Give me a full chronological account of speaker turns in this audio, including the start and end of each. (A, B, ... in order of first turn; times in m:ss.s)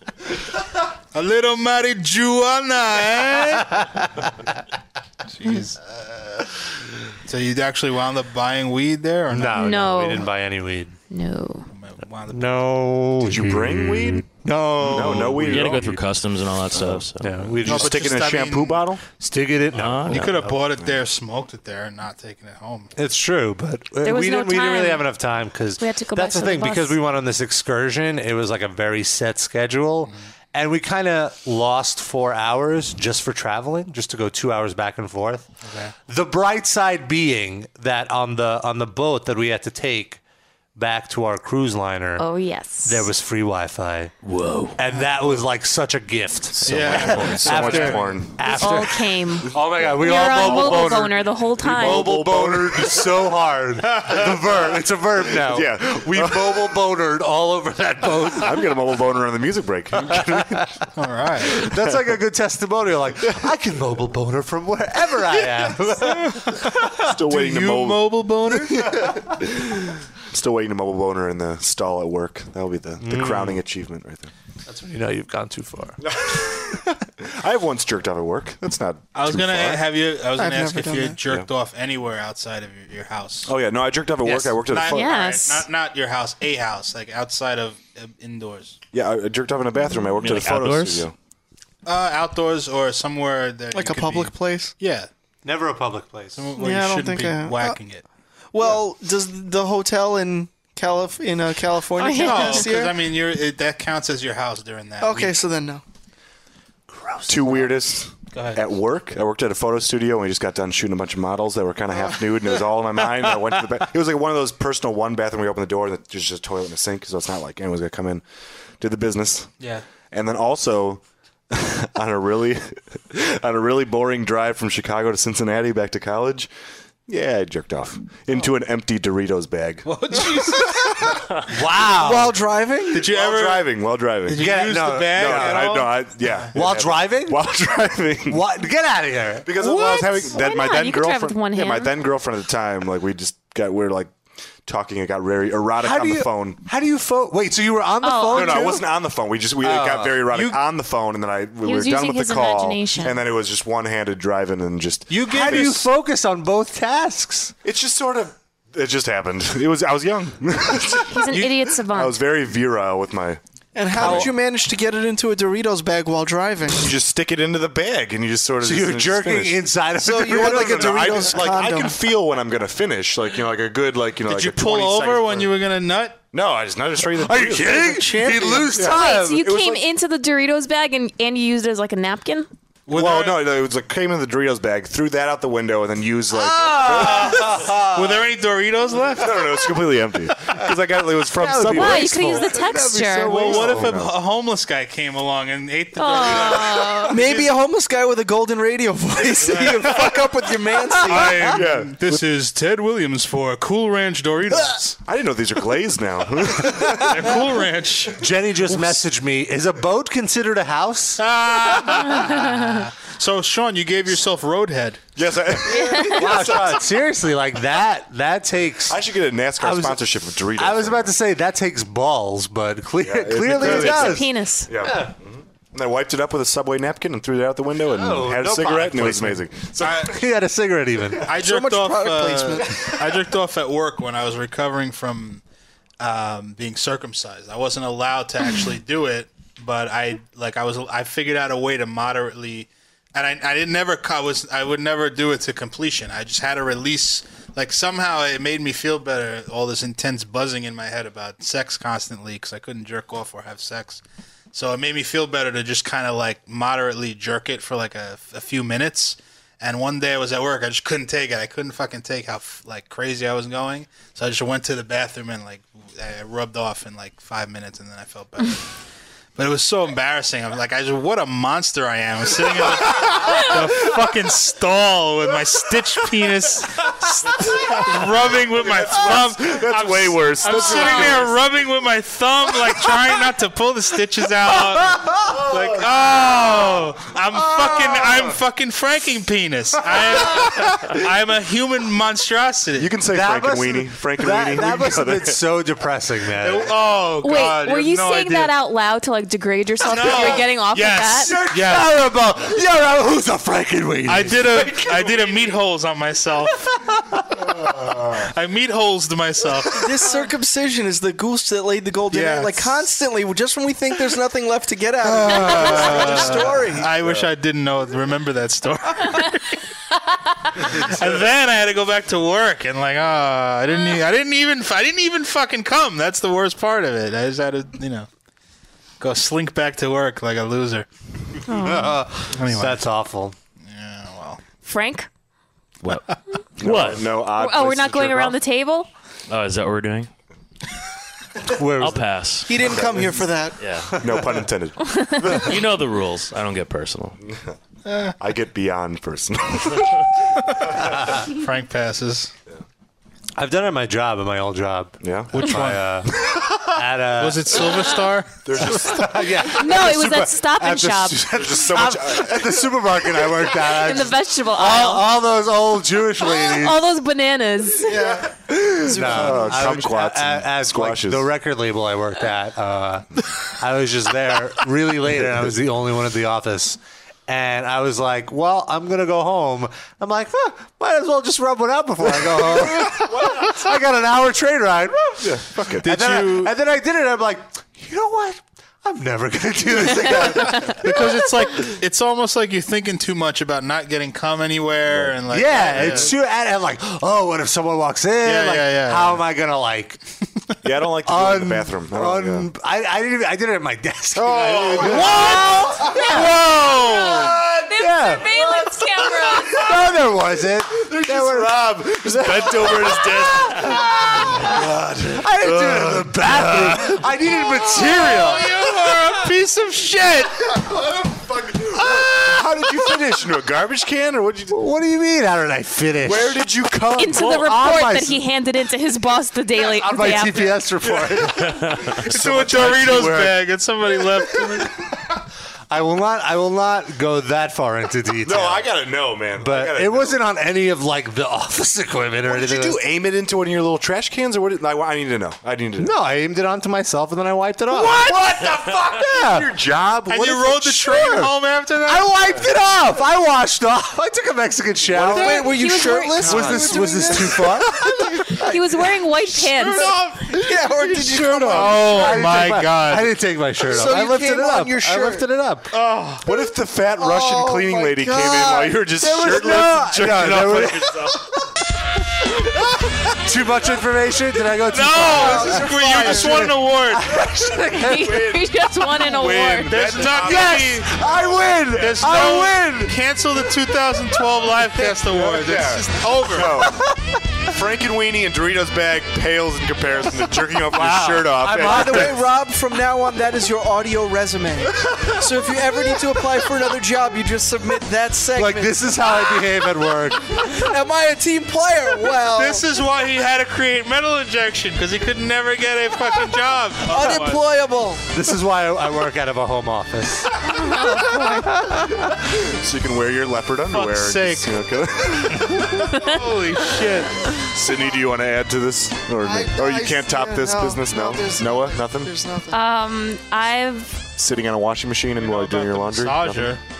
0:01.1-0:03.8 A
0:05.3-0:05.8 A
0:07.2-0:09.6 A
0:09.3-0:11.0 B
0:09.5-0:10.3 C
0:11.1-0:11.7 C
0:11.7-0:12.8 A
0:12.3-0:16.0 B
0:13.2-0:15.9 D
0:15.1-0:17.6 E
0:16.8-0:18.0 B
0:17.6-0:19.0 D
0:17.6-0:18.8 A
0:19.2-0:20.6 B
0:19.7-0:20.2 E
0:20.1-0:22.9 A
0:23.0-0:35.5 B
0:24.0-0:25.0 C
0:25.8-0:27.0 C
0:35.6-0:35.9 A
0:36.1-0:40.2 B
0:40.8-0:42.2 B
0:42.2-0:43.1 C
0:42.8-0:44.1 B
0:44.2-0:44.8 E
0:44.7-0:58.7 B
0:46.6-0:48.8 D
0:46.6-0:48.2 A
0:48.5-0:52.1 C
0:49.9-0:51.0 D
0:51.6-0:53.1 D
0:55.4-0:56.7 D
0:58.4-1:00.5 D
0:59.9-1:00.7 B
1:00.9-1:01.7 A
1:01.5-1:06.7 B
1:05.9-1:09.0 A
1:07.0-1:08.2 D
1:08.9-1:14.3 D
1:13.0-1:13.6 B
1:14.7-1:16.0 B
1:16.0-1:19.9 D
1:19.1-1:23.5 A
1:20.3-1:21.2 F
1:23.4-1:25.1 D
1:24.2-1:28.8 A
1:24.9-1:25.6 C
1:28.9-1:31.1 D
1:30.2-1:31.1 E
1:31.8-1:35.1 A
1:33.7-1:34.7 F
1:35.4-1:36.5 B
1:36.4-1:38.0 A
1:36.6-1:37.8 F
1:38.5-1:43.0 F
1:42.0-1:42.7 C
1:42.2-1:45.3 A
1:45.0-1:45.8 F
1:46.9-1:47.7 B
1:47.3-1:58.2 D
1:48.3-1:48.6 A
1:58.8-1:59.5 D
1:59.6-1:59.8 A
2:00.1-2:06.5 D
2:07.1-2:10.7 D
2:09.8-2:10.9 A
2:11.5-2:12.4 B
2:11.9-2:13.0 F
2:12.9-2:18.4 D
2:12.9-2:16.5 A
2:14.3-2:15.8 B
2:16.5-2:17.5 B
2:18.2-2:19.5 B
2:19.4-2:24.1 D
2:19.6-2:21.9 C
2:24.6-2:26.6 D
2:25.8-2:28.9 B
2:28.0-2:28.7 C
2:28.3-2:35.8 D
2:29.6-2:30.3 B
2:31.6-2:33.2 C
2:35.1-2:35.8 A
2:35.1-2:37.5 B
2:37.6-2:43.4 D
2:41.1-2:42.2 C
2:43.7-2:46.9 F
2:43.9-2:44.4 D
2:44.0-2:44.3 B
2:46.7-2:49.6 D
2:48.6-2:51.7 B
2:50.0-2:51.9 F
2:50.2-2:55.6 D
2:54.2-2:56.2 A
2:56.3-2:58.1 D
2:57.2-2:59.5 B
2:58.0-2:58.7 A
2:58.6-2:59.8 D
2:58.8-3:02.5 C
3:02.9-3:03.5 A
3:02.9-3:07.8 D
3:06.3-3:08.0 B
3:06.9-3:09.4 A
3:09.2-3:12.5 D
3:11.4-3:14.0 B
3:11.7-3:13.5 C
3:13.3-3:17.5 A
3:13.3-3:14.2 D
3:16.0-3:17.2 C
3:17.1-3:21.6 F
3:19.4-3:20.2 A
3:21.0-3:25.0 A
3:21.4-3:22.2 D
3:25.0-3:27.3 D
3:26.8-3:27.3 B
3:27.0-3:28.2 A
3:28.2-3:31.3 B
3:31.2-3:35.0 A
3:31.9-3:32.1 B
3:35.2-3:36.9 D
3:35.7-3:36.4 C
3:35.9-3:39.0 B
3:38.9-3:41.1 D
3:39.6-3:44.3 B
3:43.0-3:50.1 D
3:43.6-3:44.7 C
3:44.8-3:45.1 B
3:47.9-3:51.4 B
3:49.8-3:50.1 A
3:51.2-3:55.4 A
3:51.4-3:52.8 F
3:56.0-4:14.0 A
4:14.5-4:28.6 A
4:29.4-4:52.9 A
4:38.3-4:41.4 D
4:45.2-4:46.8 D
4:47.5-4:48.1 D
4:52.8-4:55.4 D
4:53.1-4:56.7 B
4:56.4-4:58.5 A
4:57.2-5:01.4 C
4:59.8-5:01.9 A
5:01.2-5:04.8 B
5:04.0-5:06.7 A
5:04.5-5:05.6 D
5:07.6-5:08.3 D
5:08.2-5:10.0 A
5:09.8-5:16.9 F
5:12.1-5:12.7 A
5:15.0-5:19.6 A
5:15.6-5:16.6 B
5:15.8-5:17.3 D
5:20.6-5:28.1 A
5:29.0-5:30.9 A
5:31.5-5:32.0 C
5:31.5-5:33.4 B
5:32.3-5:32.8 A
5:33.7-5:34.4 A
5:34.6-5:35.1 C
5:36.6-5:38.4 D
5:36.6-5:37.1 E
5:37.3-5:38.9 C
5:39.3-5:40.1 E
5:41.5-5:42.0 B
5:41.8-5:42.5 E
5:42.5-5:43.6 F
5:42.6-5:43.3 D
5:43.6-5:43.9 E
5:44.0-5:45.6 D
5:44.9-5:45.2 C
5:45.3-5:47.2 E
5:47.8-5:48.1 A
5:48.2-5:50.1 D
5:50.8-5:52.3 A
5:53.4-5:57.9 B
5:55.0-5:55.4 D
5:55.3-5:55.9 A
5:57.2-5:58.6 A
5:58.4-5:59.5 D
5:58.6-6:06.8 B
5:59.4-6:01.3 C
6:01.2-6:03.3 D
6:03.6-6:05.1 C
6:06.2-6:08.0 C
6:07.8-6:09.8 F
6:08.6-6:11.3 D
6:08.8-6:31.3 B
6:22.4-6:23.6 D
6:25.2-6:25.9 D
6:25.8-6:26.5 A
6:30.6-6:36.1 A
6:34.9-6:36.1 D
6:35.3-6:40.0 B
6:38.2-6:39.2 A
6:40.6-6:42.5 D
6:41.0-6:46.5 B
6:44.1-6:46.0 D
6:44.8-6:47.4 A
6:45.8-6:49.7 C
6:46.7-6:47.7 D
6:47.7-6:48.4 B
6:48.5-6:50.0 D
6:49.3-6:58.5 B
6:50.7-6:59.2 D
6:58.3-7:00.4 A
7:00.4-7:04.6 D
7:04.5-7:08.2 B
7:06.0-7:07.3 D
7:07.0-7:10.6 C
7:09.5-7:13.3 B
7:10.8-7:13.4 D
7:12.0-7:14.7 A
7:15.7-7:18.7 B
7:18.2-7:20.2 D
7:19.4-7:22.8 B
7:22.3-7:25.9 D
7:25.8-7:31.3 B
7:27.7-7:30.8 D
7:30.1-7:32.1 A
7:31.8-7:35.6 B
7:35.0-7:38.8 F
7:35.1-7:36.8 C
7:36.2-7:38.5 B
7:38.4-7:39.9 C
7:39.6-7:41.7 D
7:40.3-7:41.9 F
7:41.0-7:45.7 B
7:41.5-7:43.1 A
7:43.6-7:45.3 F
7:45.7-7:51.3 D
7:47.0-7:48.8 F
7:49.0-7:51.4 B
7:53.2-7:58.3 B
7:54.7-7:57.1 A
7:55.1-7:56.5 F
7:57.7-7:59.8 C
7:57.9-8:01.2 D
7:59.6-8:00.8 A
8:00.2-8:03.0 B
8:01.8-8:06.7 A
8:04.8-8:06.8 D
8:06.6-8:07.0 B
8:07.4-8:12.2 D
8:10.7-8:12.3 B
8:11.6-8:19.1 F
8:18.3-8:20.6 B
8:20.4-8:22.6 F
8:22.3-8:27.4 A
8:26.8-8:28.1 F
8:28.1-8:30.4 B
8:30.4-8:31.6 C
8:32.0-8:35.9 D
8:33.7-8:34.5 A
8:35.8-8:37.4 A
8:37.4-8:42.2 D
8:39.2-8:42.6 F
8:42.5-8:44.0 C
8:44.2-8:46.6 D
8:45.2-8:46.6 A